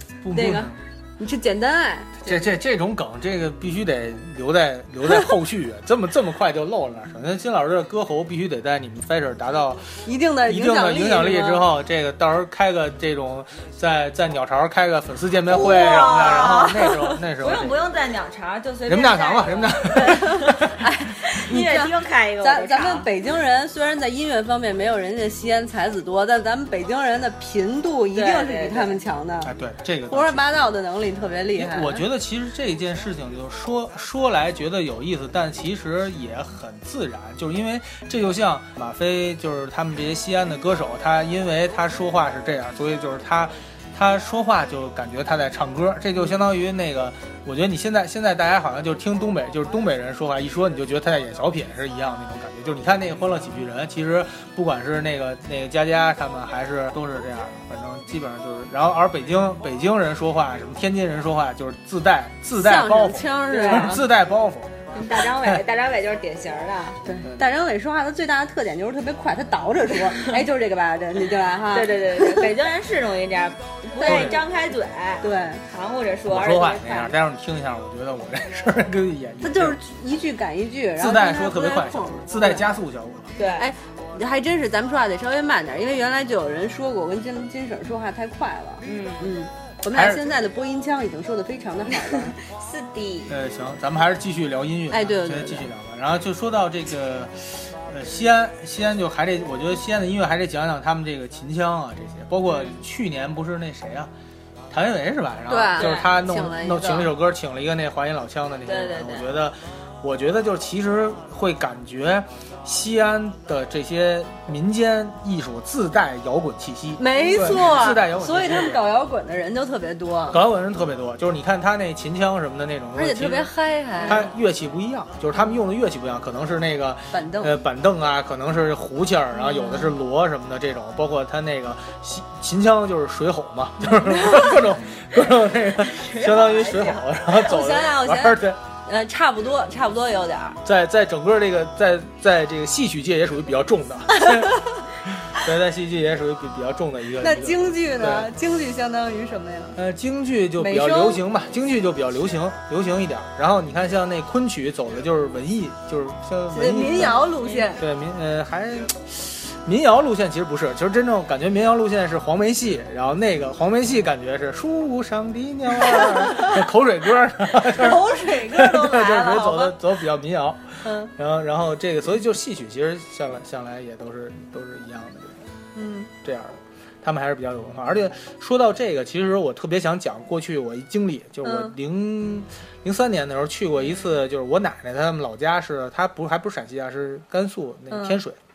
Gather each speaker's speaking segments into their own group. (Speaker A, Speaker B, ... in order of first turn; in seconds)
Speaker A: 0.2-0.8, 2.2-17.8, 18.9-20.6, 29.4-30.4, 31.6-64.8, 67.2-67.5, 74.0-74.4, 76.3-79.8, 81.0-83.3, 89.9-90.3, 93.3-104.1, 104.7-118.9, 120.3-123.5, 124.0-138.6, 140.6-148.3, 149.8-157.2, 157.8-175.4, 176.2-188.4
Speaker B: 0.3-2.4, 10.0-11.7, 15.9-16.3, 20.8-29.5, 30.1-32.0, 62.5-64.0, 67.0-72.5, 74.0-74.4, 75.2-75.6, 79.4-82.7, 83.5-92.4, 94.9-95.7, 105.5-107.1, 117.0-120.4, 123.0-124.3, 127.1-127.6, 129.4-129.8, 137.3-140.6, 147.2-149.8, 150.6-151.2, 156.5-157.8, 166.2-166.6, 167.6-168.8, 170.8-171.1, 175.7-176.1, 181.4-181.7, 187.9-188.2
Speaker C: 15.5-23.1, 28.1-29.0, 63.5-64.0, 64.9-67.0, 71.7-77.1, 83.3-83.7, 88.8-89.3, 92.0-93.4, 105.8-106.0, 108.7-109.3, 124.0-124.3, 135.8-137.0, 157.1-157.7, 168.6-169.8